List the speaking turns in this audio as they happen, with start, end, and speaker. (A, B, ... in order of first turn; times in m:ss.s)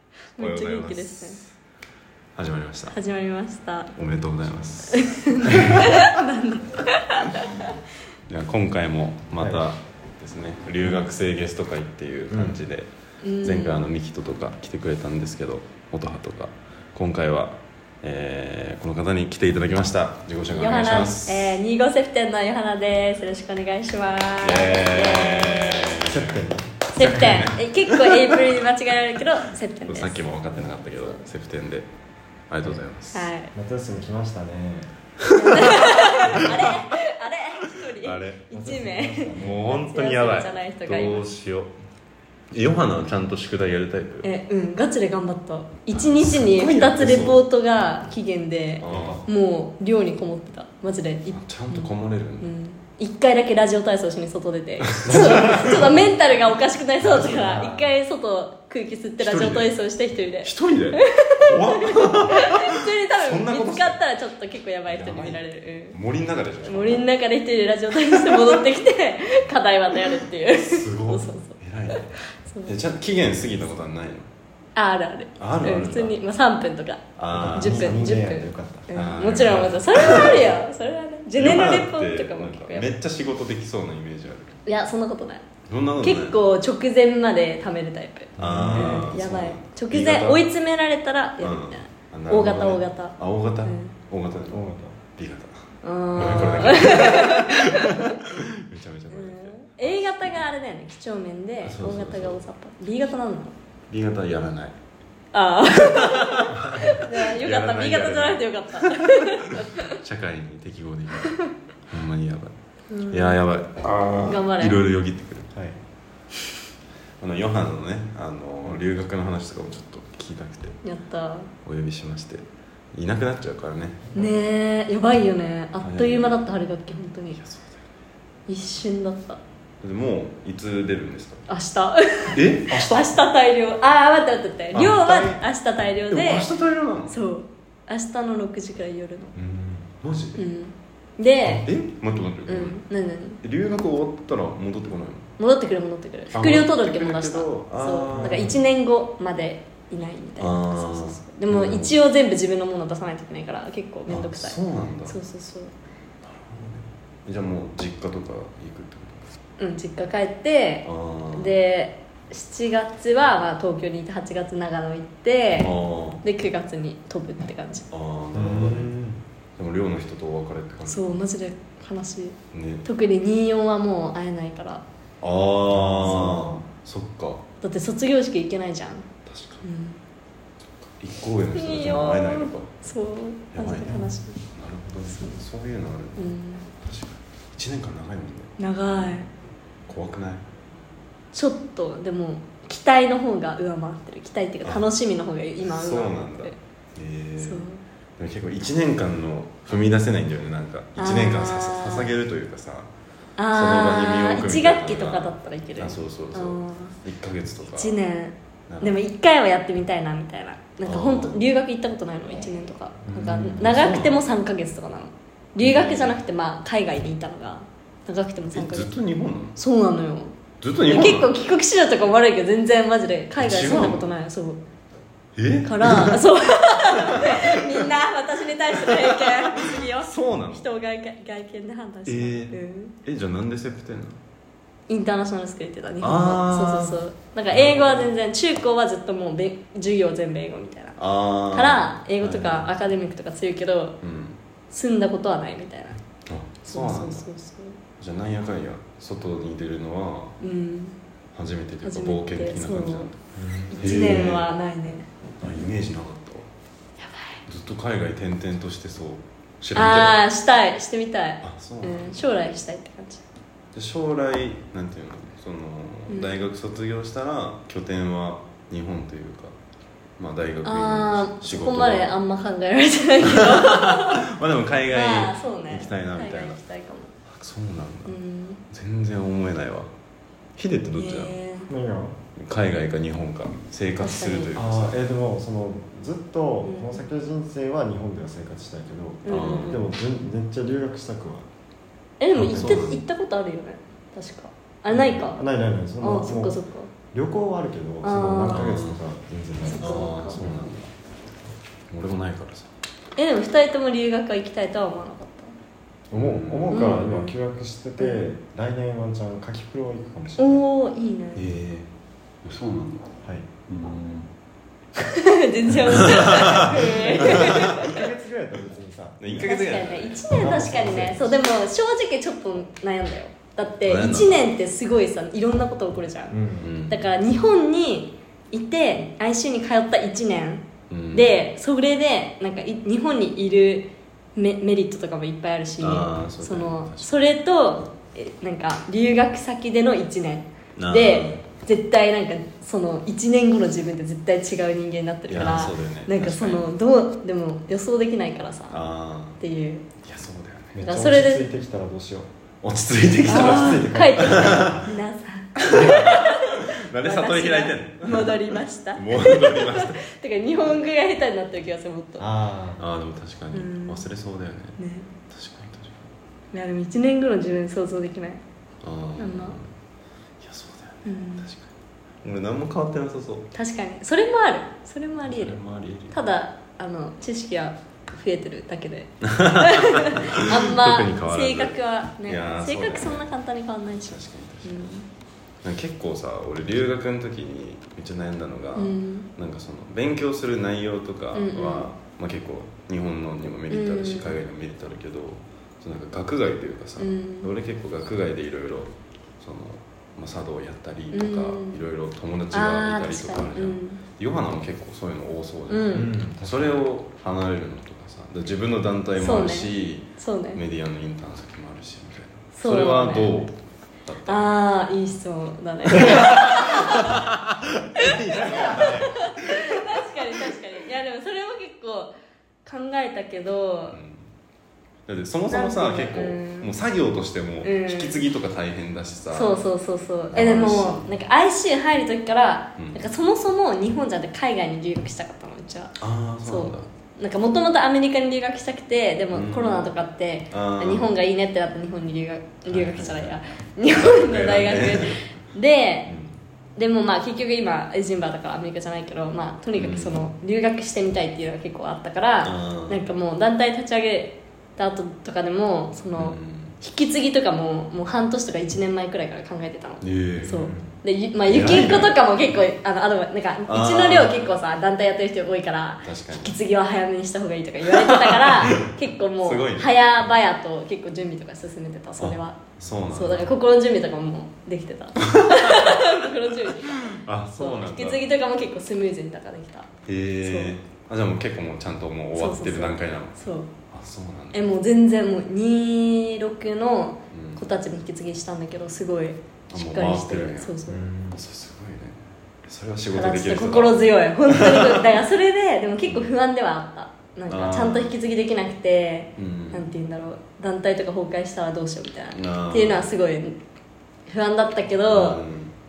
0:00.4-0:01.4 A
0:00.4-0:01.5 B
0:02.3-0:03.0 B
0:02.9-0:03.9 A
0:04.0-0:06.0 B
0:04.9-0:07.7 A
0:08.3-0:12.9 B
0:12.3-0:12.6 C
0:13.2-0:13.8 A
0:13.4-0:21.6 B
0:20.5-0:26.0 A
0:24.4-0:26.4 B
0:26.0-0:26.7 C
0:26.9-0:30.2 A
0:27.0-0:28.4 B
0:29.9-0:31.9 B
0:30.9-0:31.2 A
0:32.5-0:33.3 B
0:33.1-0:33.5 A
0:33.5-0:34.9 C
0:35.3-0:41.3 A
0:35.4-0:36.4 B
0:38.0-0:38.4 B
0:38.5-0:39.7 C
0:39.4-0:41.7 B
0:42.5-0:44.3 B
0:44.2-1:06.0 A
0:45.9-0:47.4 B
0:48.8-0:49.2 B
0:48.8-0:49.2 C
0:51.3-0:52.5 B
0:54.9-0:56.1 B
0:55.0-0:55.7 C
0:57.0-0:57.8 B
0:57.2-0:57.8 C
0:59.2-0:59.7 B
1:00.4-1:04.0 B
1:04.9-1:07.1 B
1:06.6-1:12.8 A
1:08.1-1:08.6 B
1:10.5-1:14.3 B
1:14.8-1:22.9 A
1:15.4-1:16.2 B
1:17.2-1:18.0 B
1:17.3-1:18.9 C
1:18.9-1:20.5 B
1:21.4-1:24.6 B
1:24.6-1:25.4 A
1:25.6-1:26.4 B
1:26.0-1:33.9 A
1:28.4-1:30.4 B
1:28.4-1:29.2 C
1:31.4-1:34.6 B
1:34.5-1:35.0 C
1:35.2-1:40.4 B
1:35.8-1:38.2 A
1:39.1-1:43.5 A
1:41.6-1:42.4 B
1:43.9-1:44.7 B
1:45.3-1:50.0 A
1:45.9-1:52.5 B
1:52.9-1:53.5 A
1:53.1-1:55.5 B
1:54.2-1:54.8 A
1:57.2-2:00.8 B
2:00.8-2:01.5 A
2:01.6-2:04.2 B
2:04.1-2:07.4 A
2:05.8-2:06.5 B
2:07.3-2:07.8 B
2:08.5-2:09.4 A
2:09.8-2:11.4 B
2:11.5-2:16.5 A
2:12.3-2:13.1 B
2:14.7-2:15.4 B
2:16.1-2:17.1 B
2:17.1-2:19.3 A
2:19.4-2:20.4 B
2:20.4-2:21.7 A
2:21.4-2:22.8 B
2:22.5-2:23.4 A
2:23.4-2:25.3 B
2:25.4-2:35.7 A
2:26.3-2:28.6 B
2:28.1-2:28.5 C
2:30.4-2:32.0 B
2:34.1-2:35.2 B
2:36.2-2:39.3 B
2:39.6-2:45.7 A
2:40.8-2:41.5 B
2:45.6-2:46.2 B
2:46.2-2:47.8 A
2:47.9-2:48.9 B
2:48.3-2:49.2 C
2:49.6-2:51.2 B
2:50.9-2:54.8 A
2:52.5-2:52.8 B
2:55.2-2:57.4 B
2:55.7-2:56.6 C
2:56.0-2:56.5 A
2:57.6-2:59.1 A
2:59.2-2:59.6 B
2:59.6-3:00.0 A
3:01.0-3:02.7 B
3:01.5-3:04.4 A
3:03.5-3:09.2 B
3:06.2-3:06.6 A
3:08.6-3:09.3 A
3:09.9-3:10.4 B
3:11.3-3:16.6 A
3:15.6-3:22.9 B
3:17.4-3:17.8 A
3:21.0-3:22.1 A
3:23.4-3:27.0 A
3:23.5-3:28.0 B
3:27.7-3:38.9 A
3:28.7-3:29.0 B
3:30.8-3:31.4 B
3:33.1-3:33.5 C
3:33.5-3:34.2 B
3:35.6-3:36.2 B
3:38.5-3:39.6 B
3:39.6-3:40.3 A
3:40.6-3:41.3 B
3:40.8-3:44.6 A
3:43.4-3:44.0 B
3:45.4-3:46.2 B
3:45.6-3:52.9 A
3:47.0-3:47.8 B
3:48.9-3:50.6 B
3:52.0-3:54.2 B
3:54.9-4:01.0 A
3:56.0-3:58.1 B
4:01.0-4:02.7 B
4:01.5-4:04.0 A
4:04.0-4:04.4 B
4:04.7-4:06.0 A
4:06.3-4:07.2 B
4:06.6-4:07.8 A
4:08.0-4:10.4 B
4:10.4-4:11.0 A
4:11.3-4:13.2 B
4:11.8-4:13.1 A
4:13.4-4:13.9 C
4:13.7-4:15.1 A
4:13.8-4:14.5 B
4:15.4-4:16.5 B
4:17.0-4:17.4 A
4:17.4-4:20.2 B
4:19.7-4:23.2 A
4:21.4-4:22.2 B
4:23.7-4:29.5 B
4:26.1-4:26.5 A
4:30.2-4:32.1 B
4:30.6-4:34.2 A
4:33.2-4:36.6 B
4:34.9-4:37.1 A
4:37.2-4:38.2 B
4:38.0-4:38.6 A
4:38.7-4:39.9 B
4:40.6-4:41.4 B
4:41.0-4:41.7 A
4:41.7-4:42.2 C
4:42.4-4:45.0 B
4:44.0-4:44.5 A
4:44.5-4:51.5 C
4:46.6-4:47.0 A
4:49.2-4:49.9 A
4:49.3-4:49.8 B
4:52.2-4:55.4 A
4:52.3-4:52.9 C
4:52.4-4:53.0 B
4:55.2-4:56.5 C
4:56.0-4:56.9 A
4:57.1-5:00.6 C
4:58.0-4:58.7 A
4:58.5-4:59.0 B
4:59.6-5:00.4 A
4:59.8-5:00.9 B
5:01.9-5:02.7 B
5:03.2-5:05.5 A
5:06.1-5:07.2 B
5:06.1-5:10.6 C
5:06.7-5:07.3 A
5:08.0-5:08.3 A
5:10.4-5:11.5 A
5:11.3-5:11.9 B
5:12.4-5:13.1 B
5:13.2-5:13.5 C
5:13.7-5:14.3 B
5:15.0-5:18.0 A
5:15.8-5:18.0 B
5:16.6-5:19.5 C
5:19.2-5:20.9 B
5:19.4-5:48.8 A
5:20.3-5:21.3 C
5:23.8-5:24.4 B
5:26.3-5:26.7 C
5:26.6-5:27.0 B
5:30.9-5:31.4 B
5:35.8-5:37.2 B
5:40.8-5:41.4 B
5:45.3-5:46.6 B
5:48.7-5:49.4 B
5:49.4-5:49.8 A
5:50.0-5:50.8 B
5:50.7-5:52.3 C
5:50.8-5:51.5 A
5:52.6-5:54.9 B
5:53.3-6:02.3 A
5:53.3-5:54.9 C
5:55.6-6:00.0 B
6:02.2-6:02.8 C
6:02.8-6:06.1 B
6:03.5-6:04.0 A
6:04.8-6:05.1 A
6:06.5-6:08.4 A
6:08.8-6:09.7 B
6:09.2-6:09.6 A
6:10.4-6:11.7 B
6:11.0-6:11.5 A
6:12.2-6:13.5 B
6:13.5-6:15.6 A
6:15.2-6:16.2 B
6:16.1-6:25.0 A
6:19.2-6:23.3 B
6:24.1-6:24.9 B
6:25.6-6:53.5 B
6:28.7-6:29.3 A
6:31.3-6:31.9 A
6:33.7-6:34.4 A
6:37.0-6:37.5 A
6:41.1-6:41.8 A
6:42.5-6:44.0 A
6:45.7-6:46.1 A
6:45.9-6:46.8 C
6:49.2-6:50.6 A
6:52.5-6:53.5 A
6:54.0-6:54.5 B
6:54.2-6:57.2 A
6:56.0-7:00.5 B
6:58.0-7:02.1 A
7:02.6-7:04.0 A
7:03.9-7:04.3 B
7:05.1-7:09.6 B
7:05.5-7:06.7 A
7:07.6-7:08.2 A
7:09.3-7:26.1 A
7:10.3-7:11.1 B
7:12.8-7:13.0 B
7:16.0-7:16.9 B
7:19.3-7:19.9 B
7:20.5-7:21.1 B
7:22.7-7:23.4 B
7:23.9-7:25.2 B
7:26.1-7:26.4 B
7:26.8-7:59.9 A
7:29.8-7:30.2 B
7:32.4-7:33.0 B
7:36.1-7:36.8 B
7:40.0-7:40.8 B
7:41.5-7:42.2 B
7:43.7-7:44.4 B
7:46.0-7:46.6 B
7:47.9-7:48.9 B
7:49.4-7:49.9 B
7:52.2-7:53.5 B
7:55.2-7:58.2 B
8:00.0-8:03.4 B
8:00.4-8:00.8 A
8:02.3-8:03.7 A
8:03.9-8:04.7 B
8:04.5-8:11.0 A
8:07.3-8:07.7 B
8:09.7-8:10.8 B
8:10.9-8:11.4 C
8:11.3-8:15.1 B
8:13.1-8:23.6 A
8:16.0-8:16.3 B
8:17.5-8:18.1 B
8:19.4-8:19.9 B
8:22.3-8:23.1 B
8:24.3-8:25.4 A
8:25.1-8:25.7 B